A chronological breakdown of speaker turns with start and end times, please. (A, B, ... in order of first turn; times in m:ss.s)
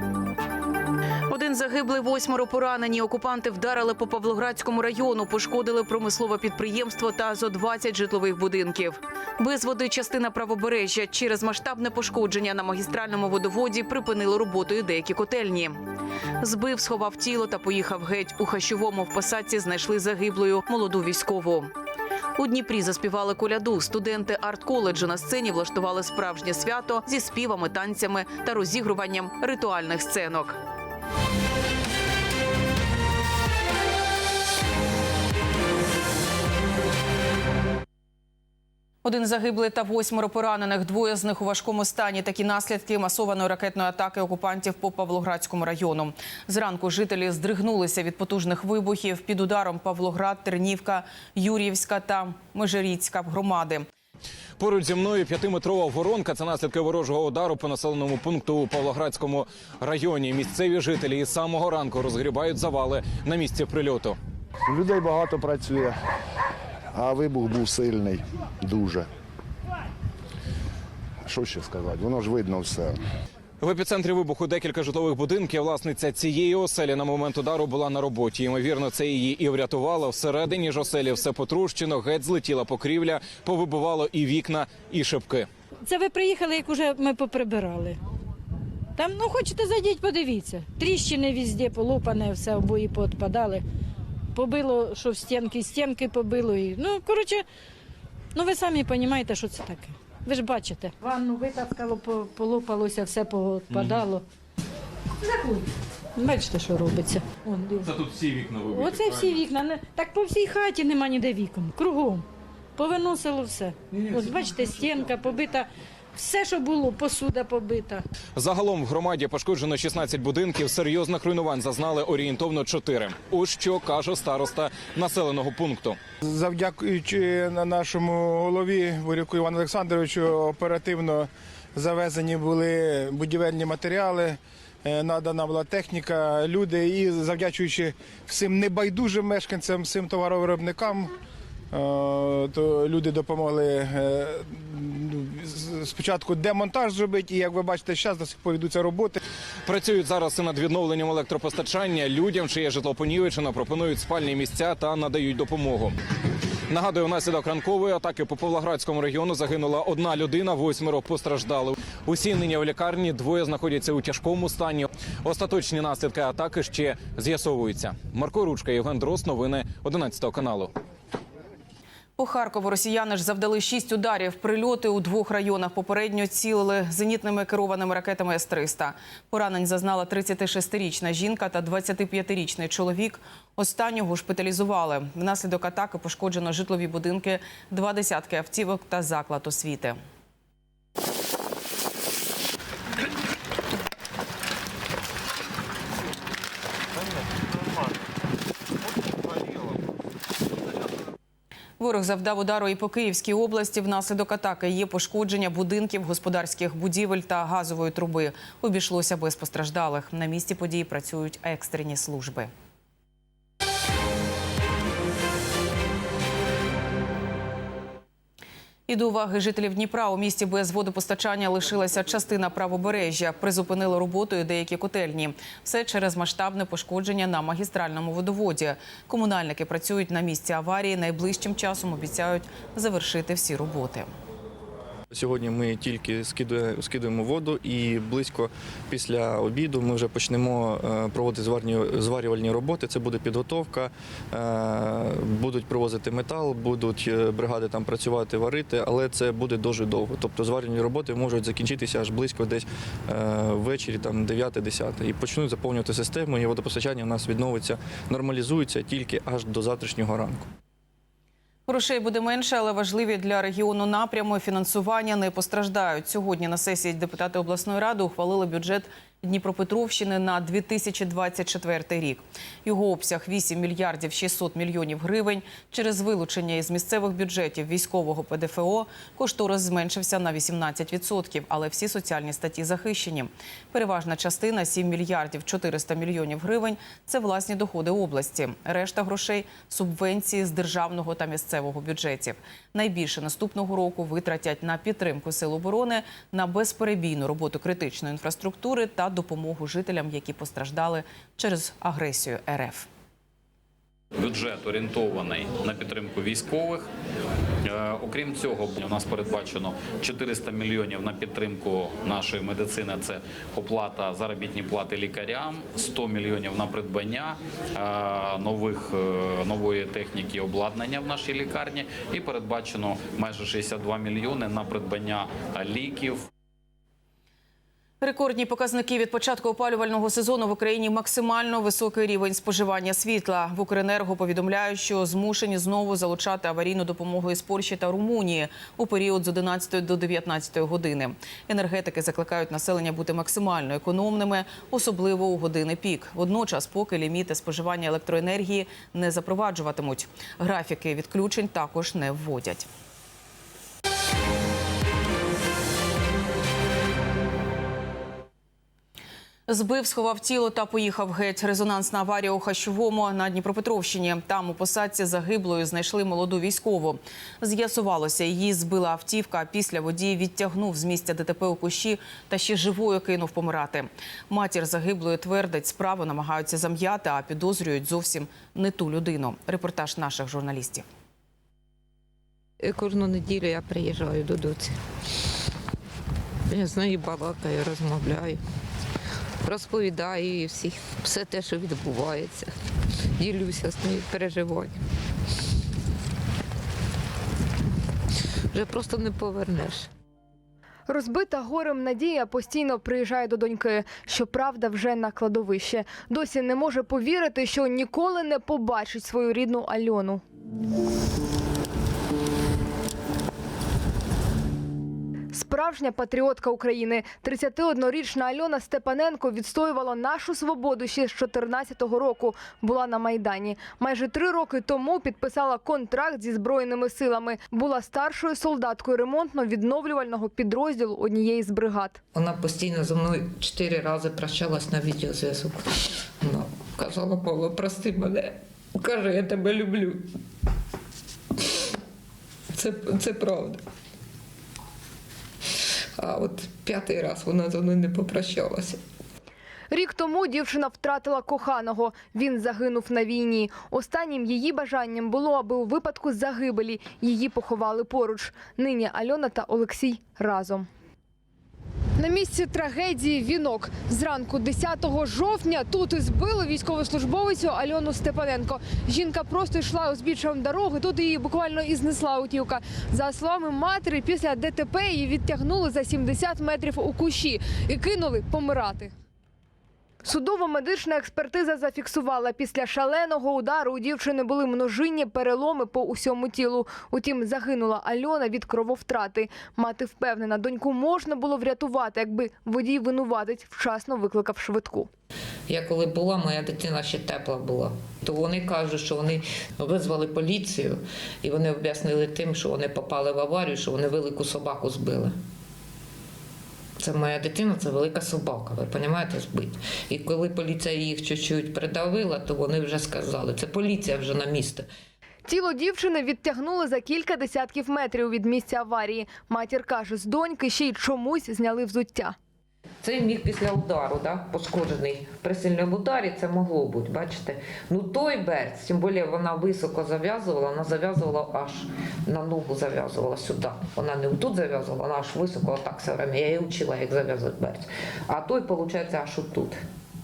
0:01.3-0:15.8 A
0:16.4-0:21.7 A
0:22.4-0:30.6 A
0:39.0-0:53.8 A
0:54.6-1:04.2 B
1:04.7-1:05.9 C
1:06.9-1:09.1 C
1:11.2-1:13.0 C
1:13.6-1:25.5 B
1:25.8-1:28.0 D
1:29.0-1:33.6 D
1:34.3-1:37.4 D
1:38.3-1:44.2 D
1:43.7-1:44.0 B
1:45.2-1:45.6 D
1:46.2-1:47.9 D
1:47.8-1:49.4 B
1:48.7-1:52.2 D
1:52.8-1:58.0 D
1:58.4-2:06.0 B
2:06.2-2:21.1 E
2:21.7-2:29.2 E
2:29.6-2:35.9 B
2:36.7-2:50.7 B
2:52.2-3:10.0 A
3:21.8-3:32.5 A
3:38.9-3:54.1 A
3:55.1-4:20.5 F
4:21.7-5:02.9 A
5:04.1-5:06.9 G
5:07.6-5:26.3 G
5:28.0-5:52.7 A
5:59.5-6:20.8 A
6:22.6-6:24.8 H
6:26.5-6:28.4 H
6:29.4-6:32.5 H
6:33.2-6:34.8 H
6:38.5-6:39.9 H
6:40.9-6:50.2 I
6:55.3-7:12.0 I
7:12.1-7:15.6 H
7:16.2-7:20.1 H
7:22.5-7:23.6 H
7:26.0-7:28.8 H
7:29.7-7:40.7 I
7:42.0-7:58.9 I
8:00.0-8:14.9 I
8:15.5-8:25.1 H
8:26.8-8:34.7 H
8:35.2-8:42.2 I
8:42.8-8:59.6 H